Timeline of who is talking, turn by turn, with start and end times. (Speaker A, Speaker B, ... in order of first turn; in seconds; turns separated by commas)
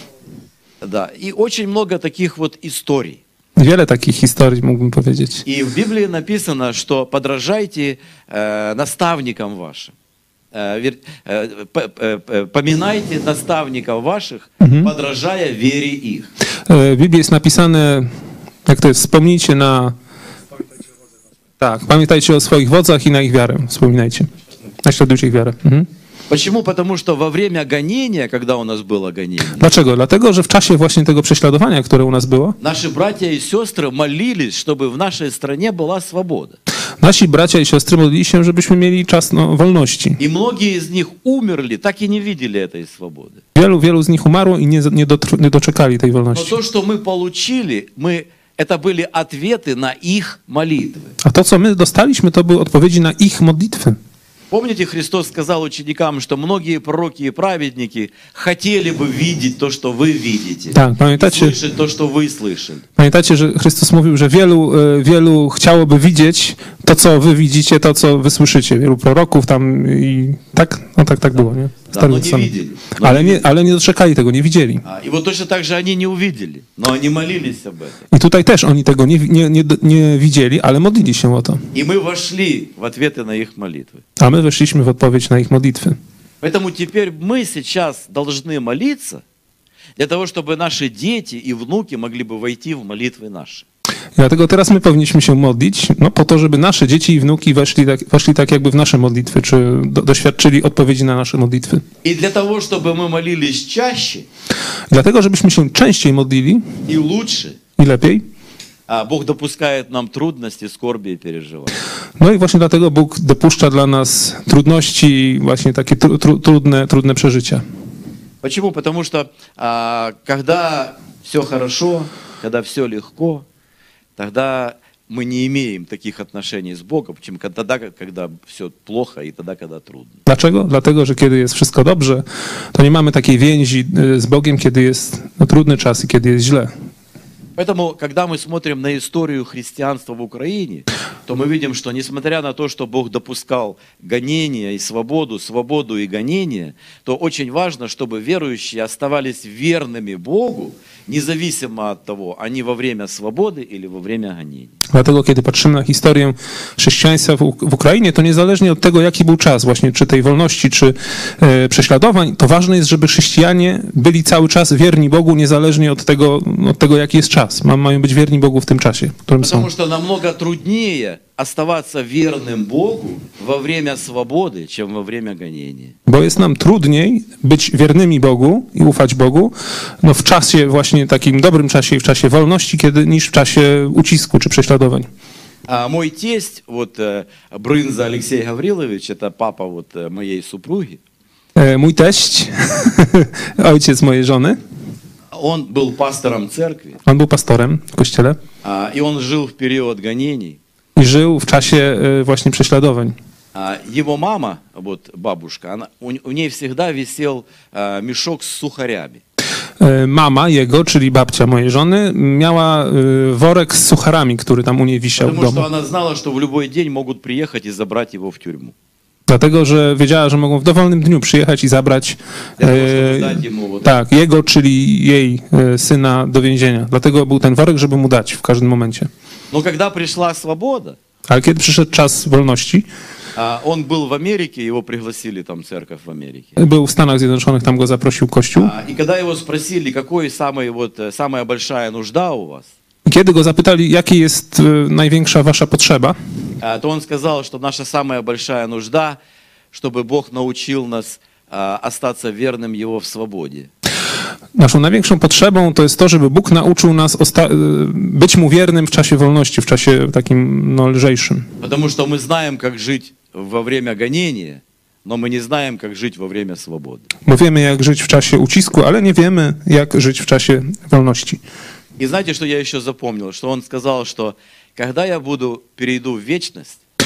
Speaker A: 0.8-3.2, Speaker B: 3.6-5.4, Speaker A: 5.5-9.9, Speaker A: 10.5-16.3, Speaker B: 14.6-14.9, Speaker B: 16.7-18.1, Speaker B: 18.7-19.9, Speaker B: 21.6-24.3, Speaker B: 24.8-25.9, Speaker A: 26.3-29.8, Speaker B: 29.6-32.6, Speaker A: 32.6-36.6, Speaker B: 37.0-40.2, Speaker A: 40.2-43.4, Speaker B: 43.5-46.5, Speaker A: 46.3-51.1, Speaker B: 51.2-54.0, Speaker A: 54.5-62.9, Speaker B: 60.7-61.6, Speaker B: 63.0-74.8, Speaker A: 71.9-73.5, Speaker A: 74.8-78.0, Speaker B: 78.1-81.6, Speaker A: 81.7-84.0, Speaker B: 84.2-86.0, Speaker A: 86.4-89.2, Speaker A: 90.0-93.7, Speaker B: 94.2-101.8, Speaker A: 102.0-104.3, Speaker B: 104.9-106.8, Speaker A: 106.9-107.6, Speaker B: 107.8-108.2, Speaker A: 108.9-111.7, Speaker B: 112.2-117.6, Speaker A: 118.4-123.5, Speaker A: 124.2-130.2, Speaker B: 130.3-136.7, Speaker A: 137.6-154.8, Speaker B: 154.9-169.7, Speaker A: 169.4-176.0, Speaker B: 176.1-185.1, Speaker A: 185.7-191.0, Speaker B: 191.6-194.6, Speaker A: 195.3-197.0, Speaker B: 197.1-198.4, Speaker A: 198.6-200.6, Speaker B: 201.0-203.2, Speaker A: 203.6-209.2, Speaker B: 209.8-215.7, Speaker A: 215.2-218.7, Speaker B: 219.3-229.1, Speaker A: 222.6-223.9, Speaker A: 229.5-231.0, Speaker B: 231.3-232.9, Speaker A: 233.4-236.6, Speaker B: 236.6-238.7, Speaker A: 238.6-242.7, Speaker B: 243.1-246.2, Speaker A: 246.6-249.2, Speaker A: 249.7-253.7, Speaker B: 254.6-261.4, Speaker A: 261.6-267.1, Speaker B: 267.3-271.4, Speaker A: 272.0-276.8